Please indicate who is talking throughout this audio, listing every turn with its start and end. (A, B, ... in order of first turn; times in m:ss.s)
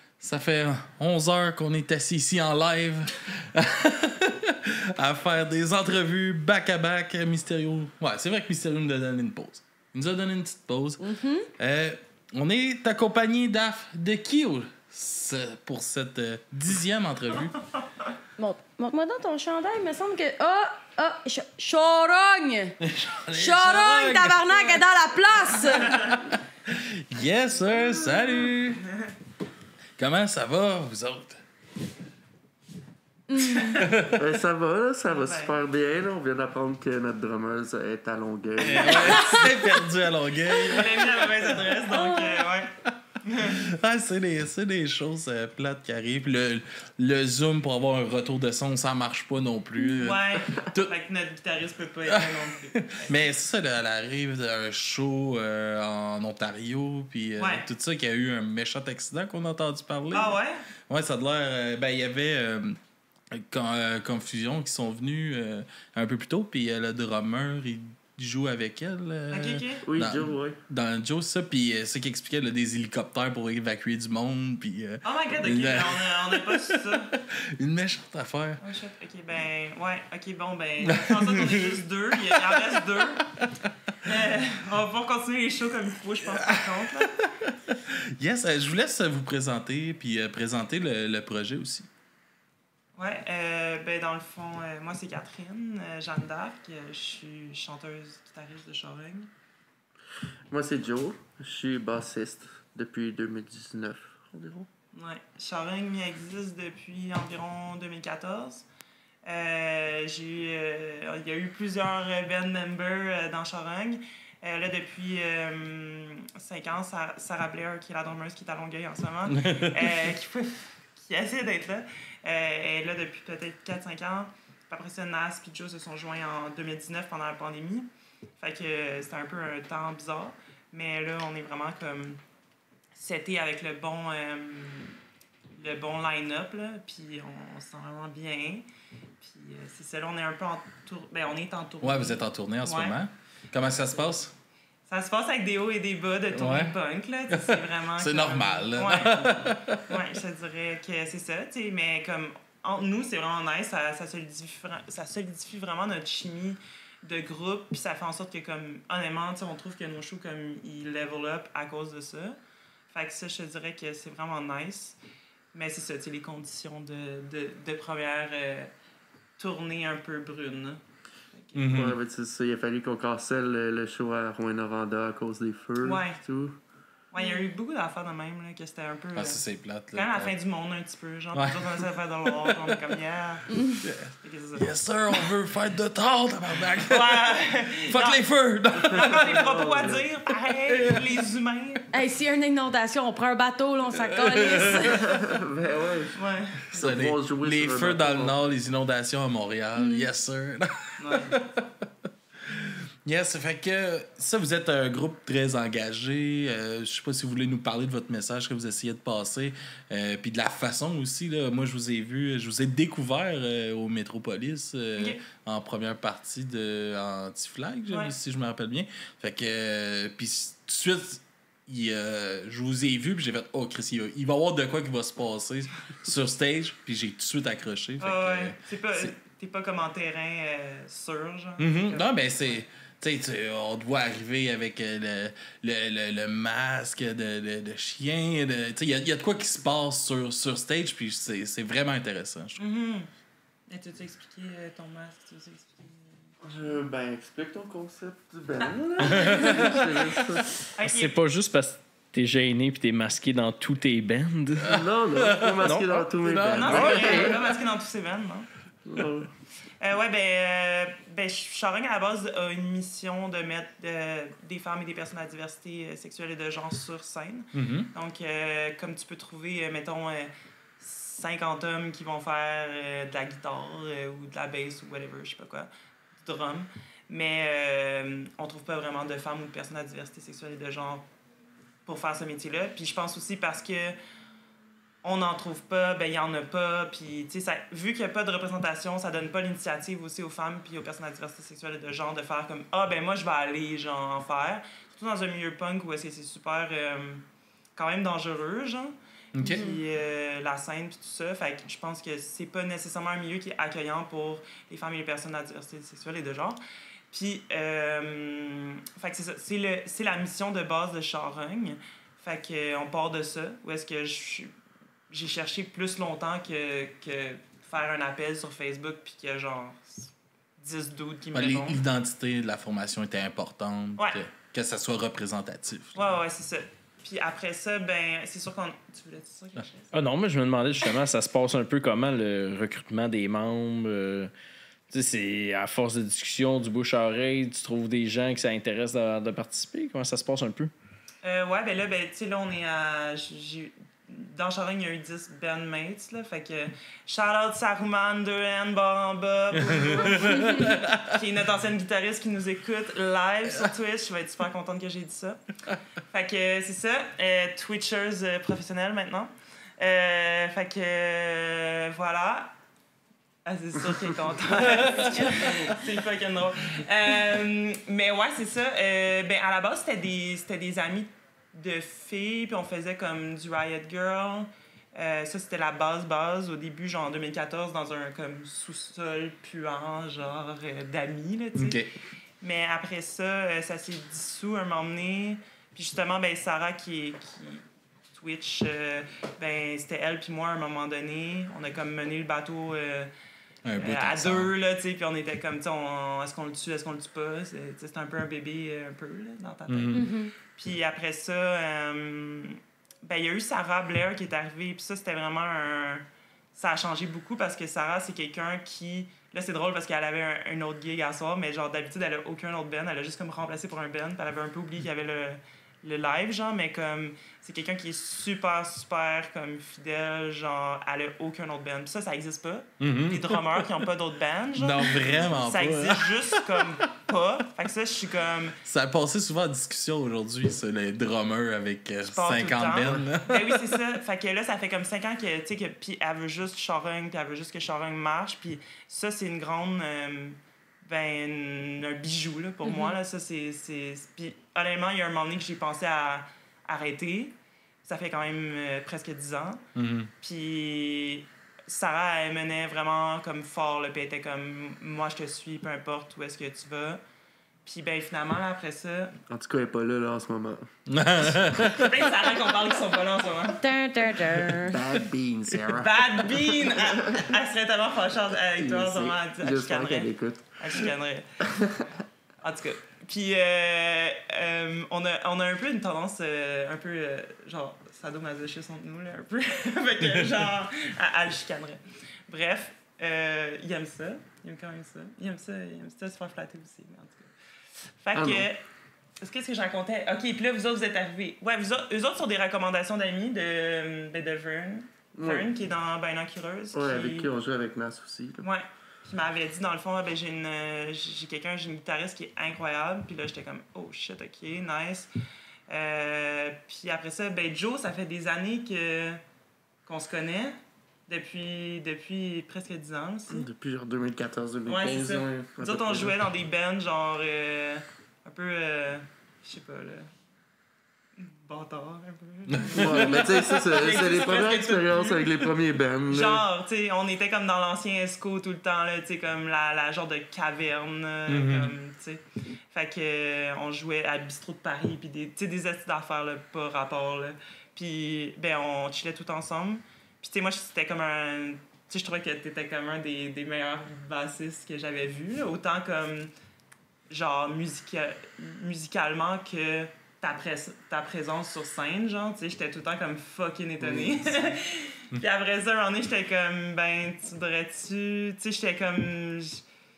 0:00.2-0:11.1 A
0:11.0-0:11.5 B
0:11.6-0:17.6 A
0:18.4-0:22.8 B
0:22.8-0:24.9 A
0:23.3-0:26.3 B
0:26.7-0:28.9 A
0:30.0-0:31.4 A
0:33.3-0:33.9 B
0:33.8-0:34.2 A
0:34.1-0:39.4 C
0:35.1-0:35.6 D
0:38.6-0:41.4 A
0:39.0-0:39.8 B
0:40.5-0:43.6 D
0:41.9-0:42.4 B
0:43.6-0:50.9 A
0:50.0-0:53.2 D
0:52.1-1:02.8 A
0:57.4-0:57.7 D
1:00.1-1:00.7 D
1:03.3-1:18.6 A
1:09.3-1:09.8 D
1:09.8-1:10.6 C
1:15.0-1:17.2 D
1:18.6-1:23.3 D
1:20.9-1:23.4 A
1:24.0-1:27.2 D
1:26.2-1:31.9 A
1:33.0-1:39.3 D
1:40.5-1:44.7 C
1:44.9-1:48.7 D
1:49.3-2:12.2 D
1:59.3-1:59.8 A
2:13.0-2:15.0 D
2:15.6-2:18.7 D
2:19.2-2:23.0 D
2:21.8-2:24.3 A
2:24.9-2:42.4 D
2:26.3-2:26.8 A
2:27.3-2:29.9 A
2:42.9-2:45.0 D
2:45.5-2:48.7 D
2:49.4-2:50.8 D
2:51.3-2:51.9 D
2:51.6-2:52.0 A
2:51.7-2:56.6 C
2:55.8-2:56.2 D
2:57.1-3:03.5 D
2:59.2-3:00.3 A
3:01.3-3:02.9 A
3:03.5-3:03.9 B
3:03.8-3:09.5 A
3:04.2-3:04.7 D
3:06.8-3:08.2 D
3:08.9-3:10.0 C
3:08.9-3:11.8 D
3:10.7-3:11.1 A
3:11.9-3:15.1 B
3:13.9-3:15.0 A
3:14.9-3:16.2 C
3:16.1-3:16.7 D
3:16.7-3:21.6 A
3:16.7-3:18.4 C
3:19.8-3:20.1 B
3:21.0-3:21.4 D
3:22.5-3:49.1 A
3:48.0-3:52.6 D
3:51.6-4:02.6 A
4:02.6-4:03.1 D
4:03.7-4:06.1 D
4:06.4-4:10.5 C
4:09.2-4:09.6 D
4:09.3-4:09.7 A
4:10.7-4:11.2 D
4:10.8-4:14.8 E
4:14.6-4:17.4 C
4:14.7-4:15.6 A
4:15.4-4:17.3 E
4:16.2-4:17.4 A
4:16.5-4:18.5 D
4:18.8-4:19.3 C
4:19.8-4:41.1 D
4:27.5-4:27.9 A
4:41.8-4:44.0 D
4:45.0-4:57.2 D
4:57.8-5:06.6 D
4:59.4-4:59.6 A
4:59.4-4:59.8 B
5:07.1-5:14.5 D
5:15.1-5:21.8 D
5:21.3-5:26.0 A
5:24.0-5:24.2 D
5:26.0-5:29.9 D
5:29.9-5:34.3 E
5:34.9-5:40.7 E
5:41.2-5:55.4 D
5:49.7-5:51.0 A
5:56.1-6:02.6 D
6:03.4-6:21.8 D
6:05.2-6:05.7 C
6:21.6-6:21.9 A
6:22.4-6:33.1 D
6:33.6-6:34.5 A
6:33.8-7:08.6 D
6:39.7-6:40.0 A
6:39.9-6:40.3 B
7:02.8-7:03.7 A
7:04.6-7:06.4 A
7:08.6-7:13.8 A
7:12.0-7:29.6 D
7:22.6-7:23.0 B
7:29.8-7:30.1 A
7:30.2-7:37.0 D
7:37.6-7:39.2 D
7:39.3-7:40.7 C
7:40.9-7:41.9 A
7:41.3-7:43.6 D
7:43.6-7:44.8 B
7:44.6-7:47.3 C
7:45.7-7:51.3 D
7:48.6-7:50.8 C
7:51.4-7:51.9 C
7:52.4-8:07.3 D
8:08.0-8:08.6 D
8:08.2-8:08.5 C
8:09.2-8:17.3 D
8:15.2-8:15.5 C
8:16.7-8:18.4 C
8:18.4-8:25.1 D
8:25.7-8:29.2 D
8:29.8-8:33.5 D
8:33.3-8:36.2 C
8:34.7-8:40.1 D
8:41.2-8:45.3 D
8:42.5-8:43.4 A
8:42.7-8:46.4 C
8:46.1-9:06.3 D
8:51.3-8:51.7 A
9:07.1-9:19.6 D
9:13.8-9:14.2 C